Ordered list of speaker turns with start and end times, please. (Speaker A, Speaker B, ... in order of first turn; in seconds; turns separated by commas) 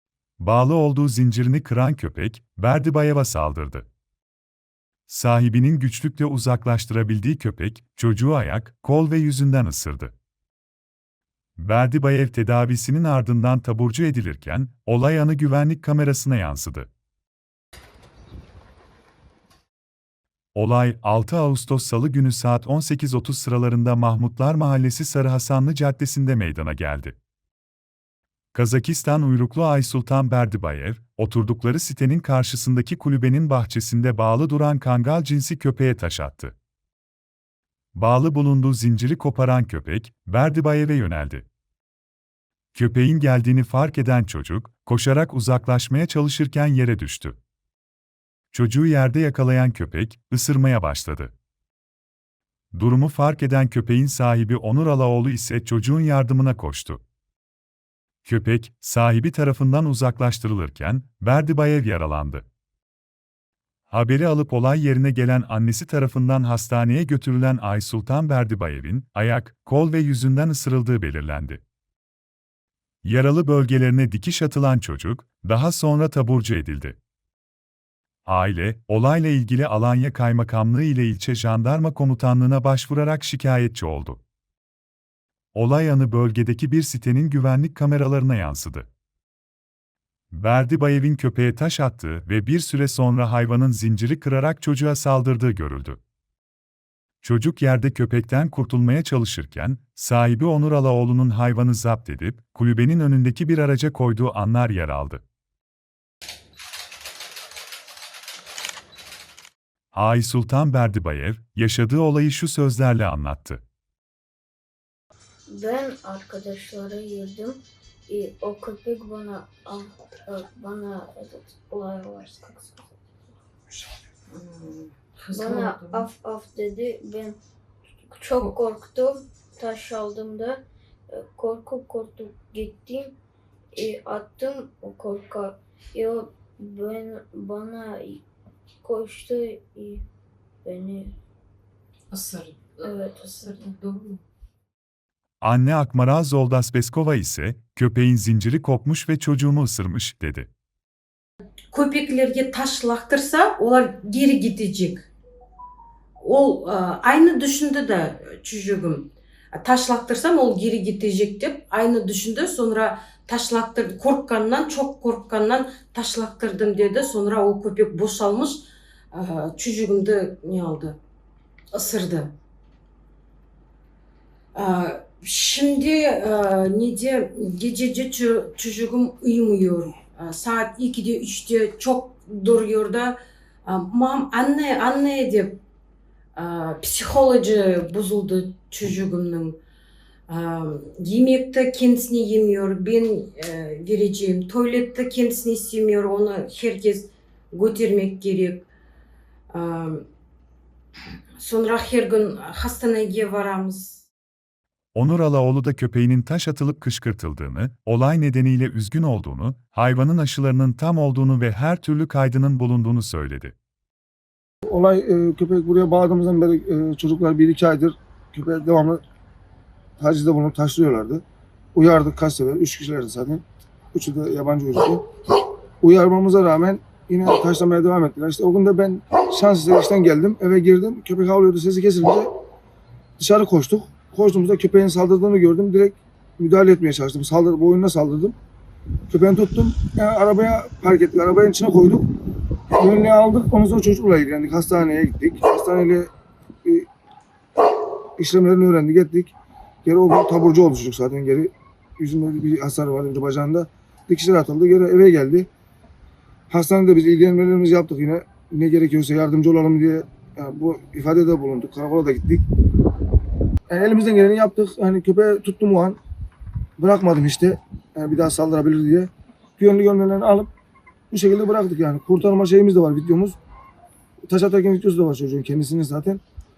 Speaker A: 0.4-3.9, Speaker A: 5.1-10.1, Speaker A: 11.6-16.9, Speaker A: 20.6-27.2, Speaker A: 28.6-36.5, Speaker A: 38.0-41.5, Speaker A: 42.7-47.4, Speaker A: 48.5-51.3, Speaker A: 52.7-57.0, Speaker A: 58.2-62.5, Speaker A: 63.9-71.6, Speaker A: 73.0-77.0, Speaker A: 78.2-84.2, Speaker A: 85.5-88.9, Speaker A: 90.3-96.0, Speaker A: 97.2-105.2, Speaker A: 109.9-113.6, Speaker B: 115.5-122.9, Speaker C: 124.3-126.1, Speaker B: 125.3-127.4, Speaker B: 128.1-133.2, Speaker B: 133.8-138.2, Speaker B: 138.8-140.0, Speaker B: 140.6-141.1, Speaker C: 142.1-142.8, Speaker B: 142.8-143.8, Speaker C: 143.4-144.2, Speaker A: 145.4-150.5, Speaker C: 151.7-155.1, Speaker C: 156.2-171.0, Speaker C: 171.7-172.3, Speaker C: 174.5-185.6, Speaker C: 186.3-189.6, Speaker C: 190.3-198.7, Speaker C: 199.5-200.0, Speaker C: 201.4-204.1, Speaker A: 204.9-213.5, Speaker D: 214.7-219.0, Speaker D: 220.0-221.2, Speaker D: 221.8-225.0, Speaker D: 225.8-232.3, Speaker D: 233.2-238.3, Speaker D: 239.1-242.1, Speaker D: 242.7-246.1, Speaker D: 248.2-249.3, Speaker D: 249.8-255.5, Speaker D: 256.5-262.4, Speaker D: 263.7-266.0, Speaker D: 266.8-270.5, Speaker D: 271.1-273.4, Speaker D: 274.2-276.2